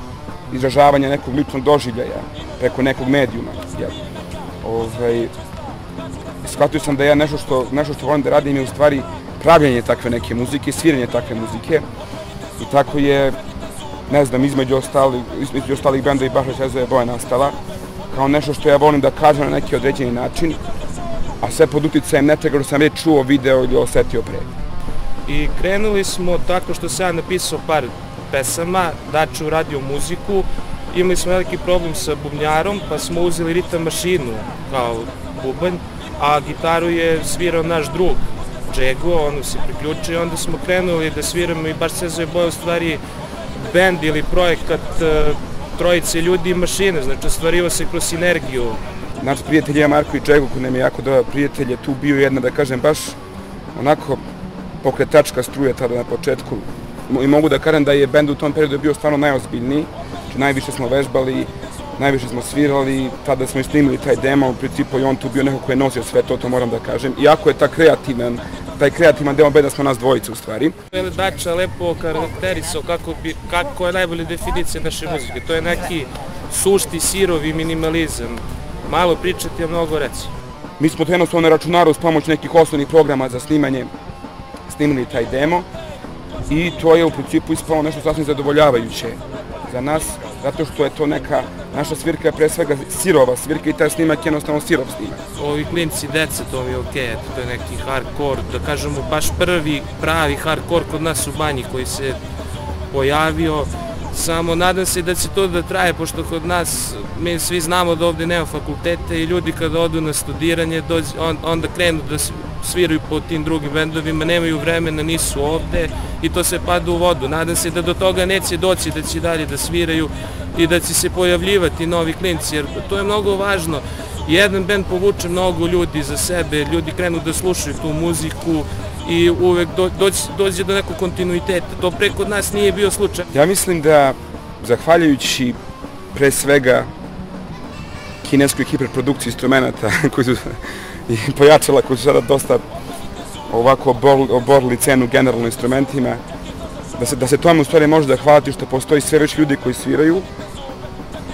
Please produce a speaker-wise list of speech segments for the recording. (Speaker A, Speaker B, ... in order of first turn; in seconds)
Speaker A: 0.5-4.0, 4.6-5.3, 6.4-11.8, 12.6-13.4, 14.1-17.6, 18.1-20.6, 21.4-24.5, 49.2-53.2, 53.7-54.2, 54.8-70.7, 80.8-83.9, 84.7-85.7, 86.5-95.2, 133.3-135.6, 136.1-136.9, 138.2-142.6, 143.5-146.2, 147.0-150.3
Speaker B: 25.3-43.0, 43.5-48.8, 70.9-80.3, 95.4-102.2, 102.9-133.3